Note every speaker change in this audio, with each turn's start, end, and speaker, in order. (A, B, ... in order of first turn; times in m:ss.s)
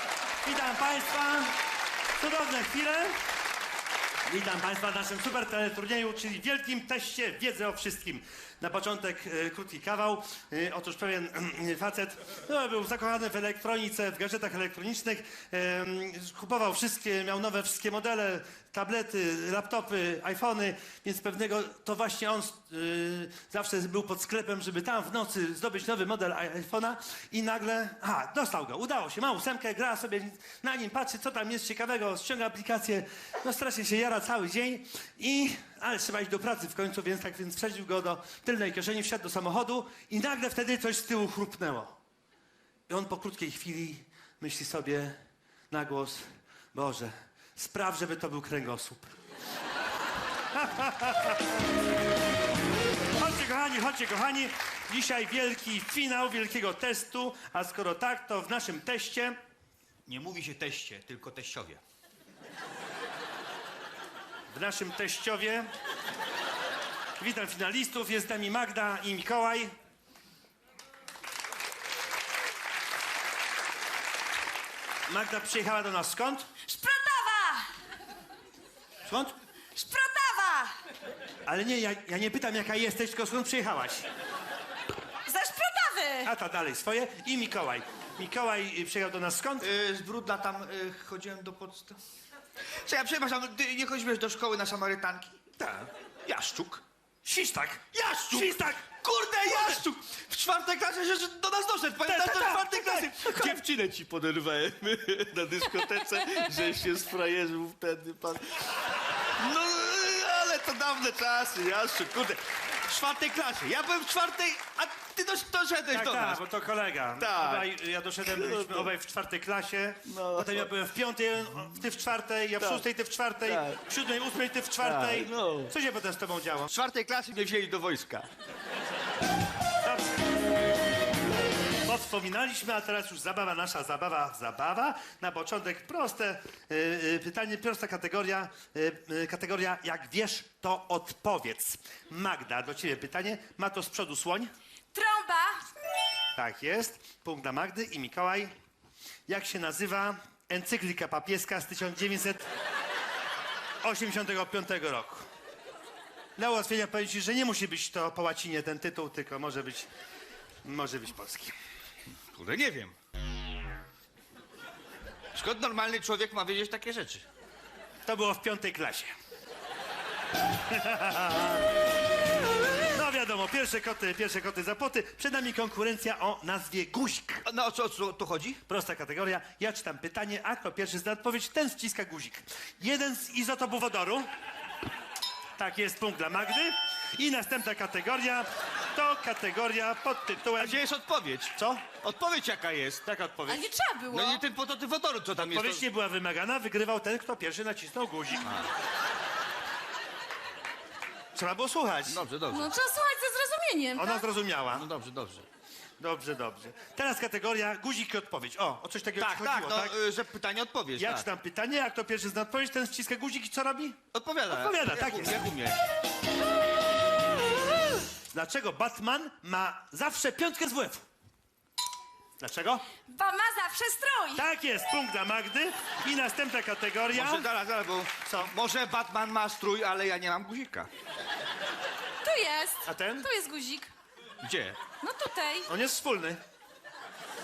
0:00.4-0:01.5 A
0:02.2-0:03.2 A
0:04.2-0:42.0 A
0:42.9-0:45.2 A
0:45.7-0:49.1 A
0:50.5-0:51.5 A
0:53.2-0:59.4 A
1:00.0-1:01.8 B
1:04.5-1:05.7 A
1:07.2-1:09.7 A
1:15.1-1:16.5 A
1:16.6-1:17.7 C
1:19.0-1:19.4 A
1:19.7-1:20.8 C
1:21.4-1:24.1 A
1:25.2-1:26.3 C
1:26.2-1:29.7 A
1:29.6-1:32.0 B
1:32.8-1:35.4 B
1:35.6-1:35.9 A
1:36.2-1:36.8 B
1:37.2-1:38.9 A
1:37.9-1:48.8 B
1:39.4-1:39.8 A
1:42.1-1:43.6 A
1:49.4-1:56.4 B
1:55.9-2:06.7 A
1:57.2-1:57.7 B
1:58.2-1:58.9 B
2:00.1-2:00.7 B
2:02.6-2:02.8 B
2:03.4-2:03.8 B
2:04.8-2:05.7 B
2:06.7-2:08.3 B
2:09.8-2:10.2 A
2:11.8-2:24.5 A
2:24.9-2:25.6 C
2:26.3-2:28.5 A
2:29.3-2:32.5 A
2:33.8-2:35.3 A
2:36.4-2:39.9 A
2:40.6-2:41.5 A
2:42.3-2:42.9 B
2:45.3-2:47.2 B
2:48.0-2:49.1 A
2:50.7-2:51.6 A
2:52.9-2:57.4 A
2:57.4-2:58.6 B
2:58.7-3:04.3 A
3:05.6-3:10.8 A
3:10.6-3:13.0 B
3:11.6-3:11.8 A
3:13.0-3:13.7 A
3:13.5-3:14.4 C
3:14.1-3:15.8 B
3:15.5-3:18.5 A
3:18.4-3:18.7 B
3:21.3-3:22.2 A
3:22.1-3:22.7 B
3:22.5-3:24.3 C
3:24.0-3:24.8 A
3:24.7-3:25.4 B
3:26.0-3:29.9 A
3:29.2-3:31.3 B
3:31.0-3:34.0 A
3:34.1-3:35.8 B
3:34.5-3:35.4 A
3:38.3-3:41.0 A
3:42.4-3:42.9 A
3:43.0-3:44.4 C
3:44.4-3:47.5 A
3:47.1-3:50.9 B
3:48.2-3:48.5 A
3:52.2-3:53.9 C
3:52.8-3:53.3 A
3:54.4-3:54.8 B
3:54.9-3:55.7 C
3:55.7-3:56.4 A